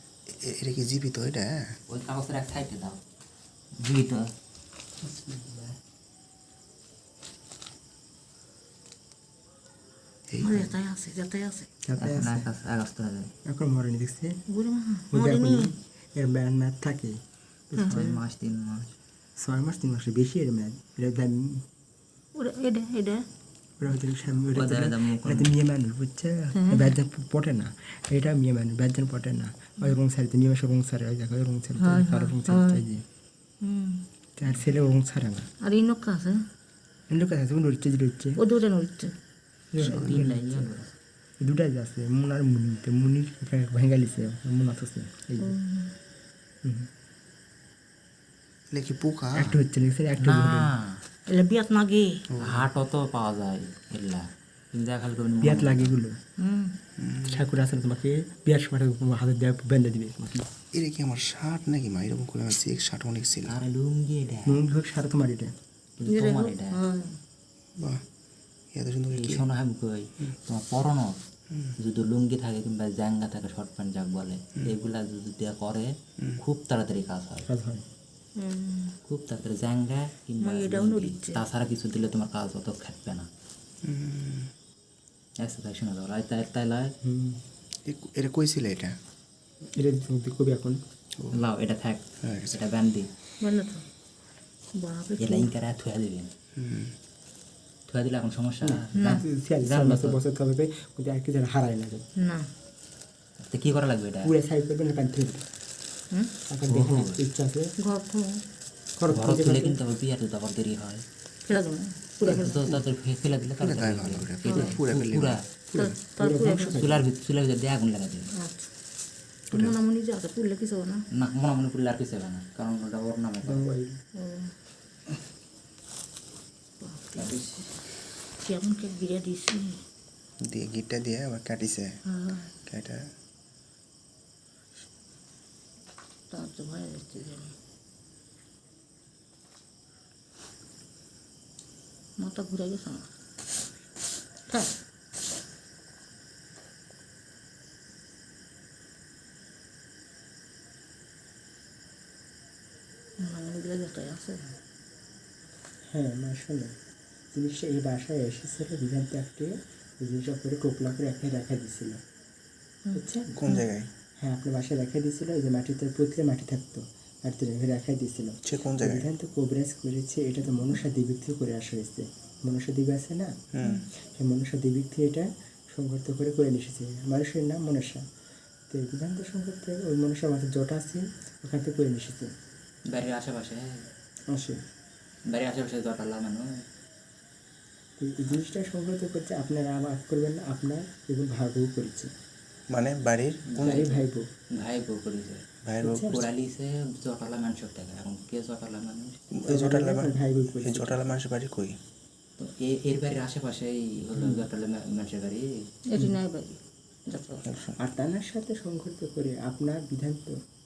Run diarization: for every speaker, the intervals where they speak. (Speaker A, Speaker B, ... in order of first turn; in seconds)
Speaker A: 0.3-1.8, 10.3-10.7, 39.8-40.3, 48.7-49.5, 52.3-52.7, 57.0-57.5, 60.7-63.6, 67.8-68.0, 68.7-69.5, 83.8-84.5, 87.8-89.0, 92.2-92.6, 96.5-96.9, 113.6-115.4, 130.4-131.9, 132.6-133.0, 163.3-163.9, 168.4-169.1, 173.5-173.8, 192.7-193.8, 195.6-196.3, 199.3-201.8, 207.4-207.8
Speaker B: 1.9-3.0, 3.8-4.3, 12.0-13.3, 17.9-18.9, 24.5-25.5, 39.8-40.9, 50.1-51.0, 52.4-55.9, 63.5-64.6, 66.0-66.8, 69.1-71.2, 71.8-77.5, 79.0-83.3, 85.4-86.9, 91.3-93.1, 95.2-96.3, 97.9-100.2, 103.4-104.3, 106.7-107.2, 109.1-111.0, 112.2-115.4, 116.7-118.3, 121.1-123.6, 127.2-127.7, 182.9-183.8, 185.3-186.5, 193.5-195.4, 196.0-199.2, 202.4-205.6
Speaker C: 5.0-5.7, 11.8-12.5, 13.4-14.4, 15.1-18.0, 19.4-21.6, 23.8-33.0, 34.4-35.5, 37.1-38.4, 39.7-40.7, 41.4-45.5, 46.6-46.9, 49.3-50.7, 55.4-56.2, 57.2-60.5, 64.5-65.5, 77.5-77.8, 87.0-87.4, 89.7-90.8, 98.6-102.0, 104.2-105.4, 106.5-107.7, 109.0-109.8, 112.2-112.6, 115.7-117.0, 123.4-124.0, 155.9-156.8, 157.3-162.0, 162.9-163.4, 164.2-173.3, 174.1-178.0, 178.7-182.3, 184.3-184.6, 188.0-192.1, 193.6-194.3, 195.8-196.2, 199.4-201.0, 204.2-204.4, 207.8-210.4
Speaker D: 10.4-11.7, 14.5-15.7, 17.8-18.2, 22.4-23.2, 26.5-26.9, 31.8-32.8, 33.6-34.0, 35.6-36.4, 38.4-39.1, 45.4-45.9, 51.3-52.2, 56.4-56.8, 66.1-67.2, 78.4-79.0, 80.4-81.4, 93.4-93.8, 94.7-95.5, 99.0-99.2, 102.2-102.5, 107.8-108.4, 111.5-112.7, 114.5-114.7, 115.7-116.8, 118.3-118.7, 119.5-121.0, 124.1-124.5, 126.8-127.3, 128.4-129.8, 132.1-132.5, 136.3-137.5, 142.2-143.1, 153.2-154.5, 162.8-163.7, 205.9-207.4